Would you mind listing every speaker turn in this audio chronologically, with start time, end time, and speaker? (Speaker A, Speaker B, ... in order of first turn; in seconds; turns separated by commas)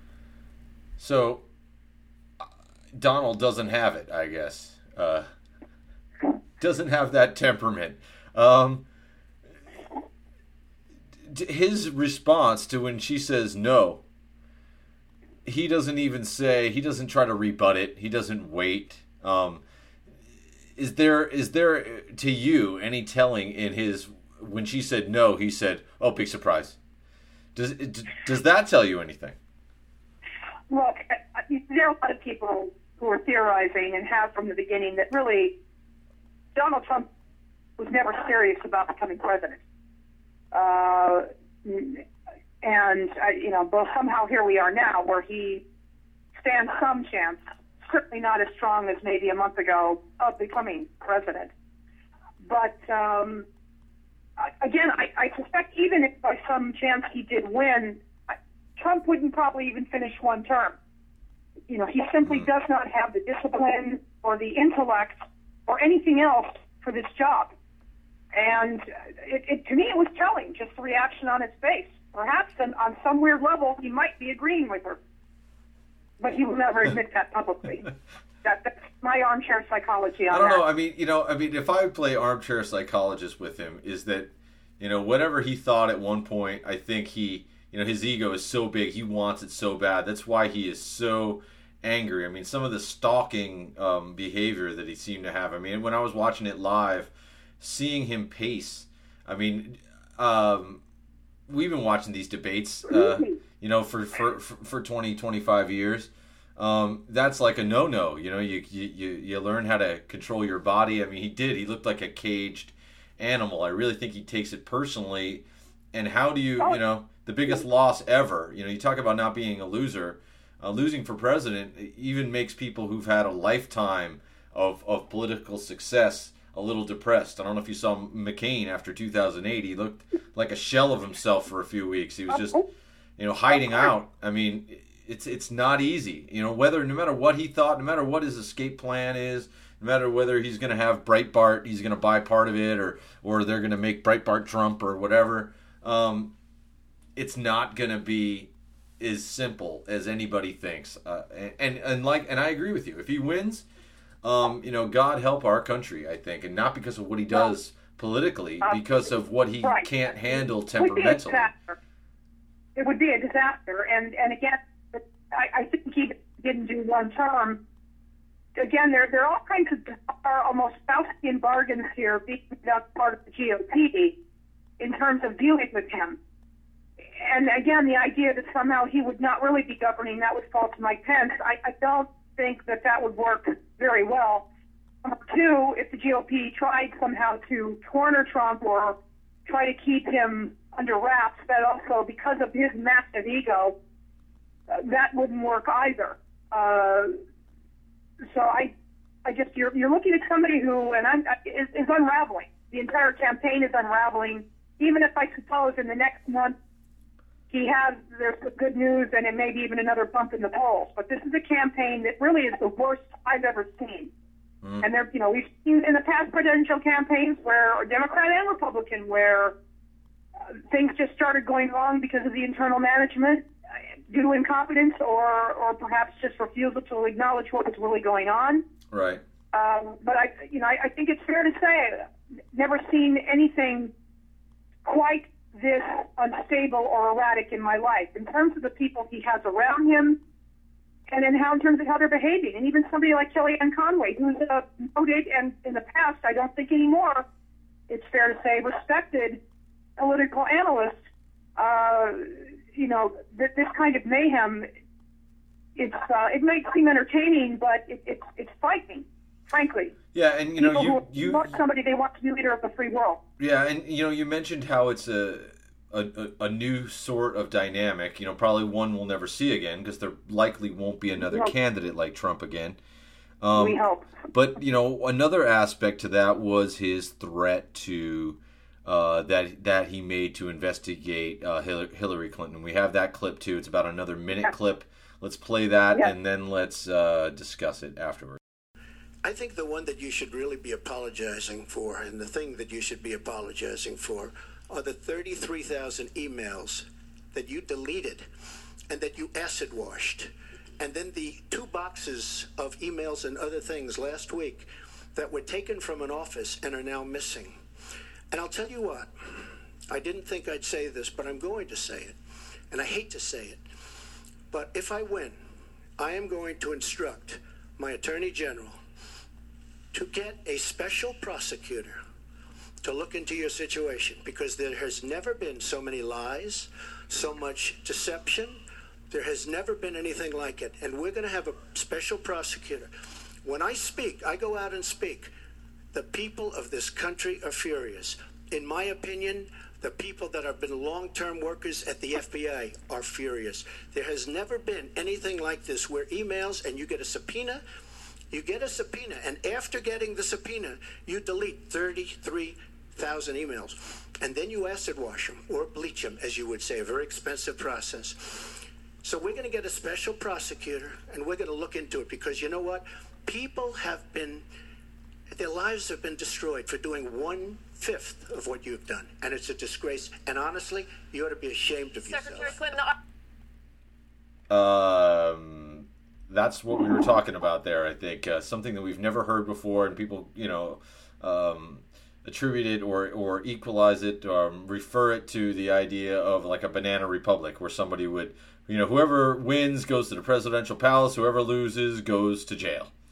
Speaker A: 1.0-1.4, Speaker A: 2.9-5.3, Speaker A: 6.6-8.8, Speaker A: 11.3-14.0, Speaker A: 15.4-19.6, Speaker A: 20.8-26.8, Speaker A: 27.5-29.4, Speaker B: 30.7-35.5, Speaker B: 36.5-37.1, Speaker B: 37.8-39.6, Speaker B: 40.5-42.0, Speaker B: 42.6-45.6, Speaker B: 46.4-51.5, Speaker B: 52.4-53.5, Speaker B: 54.4-58.0, Speaker B: 58.8-60.8, Speaker B: 61.7-67.5, Speaker B: 68.3-75.0, Speaker B: 76.2-77.9, Speaker B: 78.4-80.6, Speaker A: 80.3-100.8, Speaker A: 101.5-132.6, Speaker B: 102.9-103.4, Speaker B: 132.3-132.6, Speaker A: 133.2-146.3, Speaker A: 147.2-153.7, Speaker A: 154.2-161.5, Speaker B: 160.8-161.8, Speaker B: 162.8-167.6, Speaker B: 168.6-174.1, Speaker B: 174.8-176.2, Speaker B: 177.2-184.4, Speaker B: 185.0-193.7, Speaker B: 194.7-197.1, Speaker B: 198.2-198.7, Speaker B: 199.2-206.6, Speaker B: 207.5-214.1, Speaker B: 214.8-219.5, Speaker B: 220.4-223.5, Speaker B: 224.1-228.6, Speaker A: 228.9-229.2, Speaker B: 229.5-233.9, Speaker B: 234.8-240.2, Speaker B: 241.1-247.2, Speaker B: 247.9-249.4, Speaker B: 250.0-250.9, Speaker B: 251.6-254.7, Speaker B: 255.8-259.9, Speaker A: 260.1-261.5, Speaker B: 260.6-263.2, Speaker A: 263.4-272.8, Speaker A: 273.4-273.8, Speaker B: 273.5-274.1, Speaker A: 274.3-288.4, Speaker C: 289.2-298.2, Speaker C: 298.9-307.6, Speaker C: 308.3-309.1, Speaker C: 309.9-312.1, Speaker C: 312.7-313.6, Speaker C: 314.5-315.4, Speaker C: 316.0-318.8, Speaker C: 319.9-322.0, Speaker C: 322.8-332.9, Speaker C: 333.4-335.3, Speaker C: 335.9-347.6, Speaker C: 348.3-364.4, Speaker C: 365.3-372.6, Speaker A: 374.5-392.9